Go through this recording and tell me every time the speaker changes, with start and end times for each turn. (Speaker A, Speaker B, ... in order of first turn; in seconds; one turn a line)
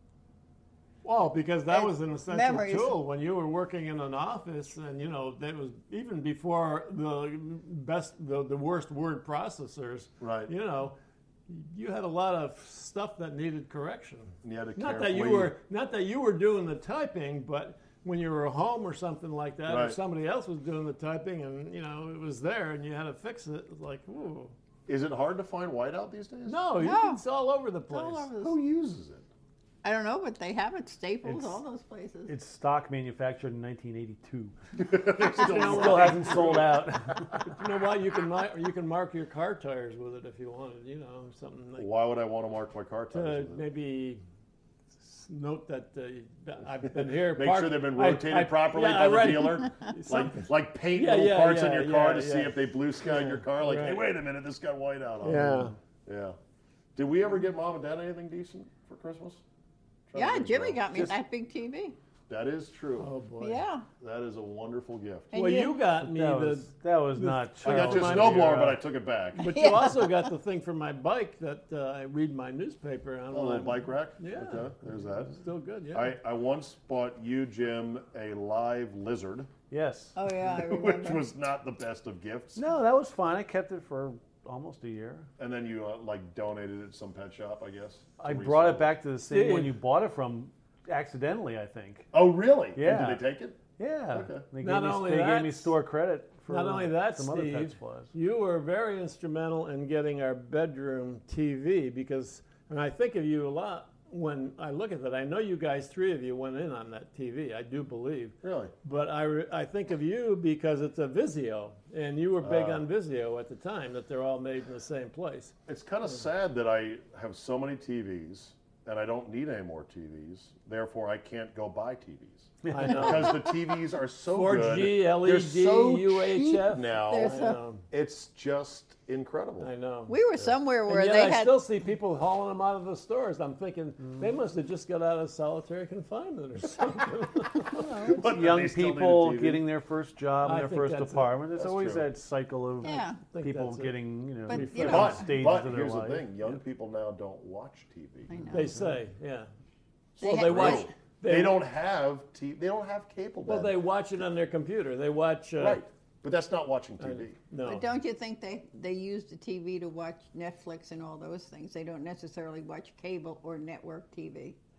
Speaker A: 1.0-10.9
Speaker B: 1.7-3.0
Speaker C: 10.2-10.5
Speaker A: 11.5-24.6
Speaker C: 14.4-15.6
Speaker C: 19.7-20.0
Speaker C: 24.9-26.6
Speaker A: 26.5-28.4
Speaker B: 26.8-27.2
Speaker B: 27.9-28.6
Speaker C: 28.4-29.3
Speaker B: 29.8-32.3
Speaker D: 31.2-31.6
Speaker D: 32.3-34.5
Speaker C: 34.8-37.4
Speaker D: 35.2-37.5
Speaker A: 35.4-36.6
Speaker A: 37.6-41.9
Speaker C: 41.8-43.6
Speaker A: 43.1-44.2
Speaker A: 45.1-54.0
Speaker C: 46.9-56.4
Speaker A: 55.2-55.8
Speaker C: 57.0-59.4
Speaker C: 60.1-61.0
Speaker B: 60.1-62.0
Speaker C: 62.3-63.1
Speaker A: 63.0-63.6
Speaker B: 63.4-63.9
Speaker C: 64.0-65.3
Speaker B: 65.3-65.8
Speaker A: 65.3-68.8
Speaker D: 66.0-68.8
Speaker C: 67.6-69.5
Speaker B: 69.4-70.3
Speaker A: 69.4-74.7
Speaker C: 73.3-75.4
Speaker A: 75.4-76.1
Speaker C: 75.9-79.5
Speaker D: 79.7-80.1
Speaker B: 80.1-81.2
Speaker C: 80.5-82.6
Speaker D: 82.6-85.3
Speaker C: 85.4-89.0
Speaker D: 88.2-92.1
Speaker A: 89.3-89.8
Speaker C: 92.1-94.5
Speaker D: 92.8-93.2
Speaker D: 93.8-98.1
Speaker A: 94.6-95.8
Speaker A: 96.5-115.5
Speaker C: 108.4-108.7
Speaker C: 112.4-112.8
Speaker C: 115.7-129.7
Speaker D: 122.6-123.0
Speaker A: 122.7-123.5
Speaker A: 124.3-127.8
Speaker B: 127.0-127.6
Speaker A: 129.6-130.1
Speaker B: 130.1-131.6
Speaker A: 130.9-138.2
Speaker C: 137.9-139.6
Speaker D: 138.0-146.3
Speaker A: 140.4-141.4
Speaker C: 141.6-142.1
Speaker B: 142.8-143.2
Speaker A: 143.3-145.2
Speaker B: 144.5-145.2
Speaker C: 144.8-148.4
Speaker B: 148.3-148.8
Speaker A: 148.5-149.5
Speaker C: 150.2-153.8
Speaker A: 150.2-151.6
Speaker B: 150.2-150.9
Speaker A: 153.4-155.8
Speaker C: 155.6-157.4
Speaker A: 157.0-157.9
Speaker B: 157.6-164.6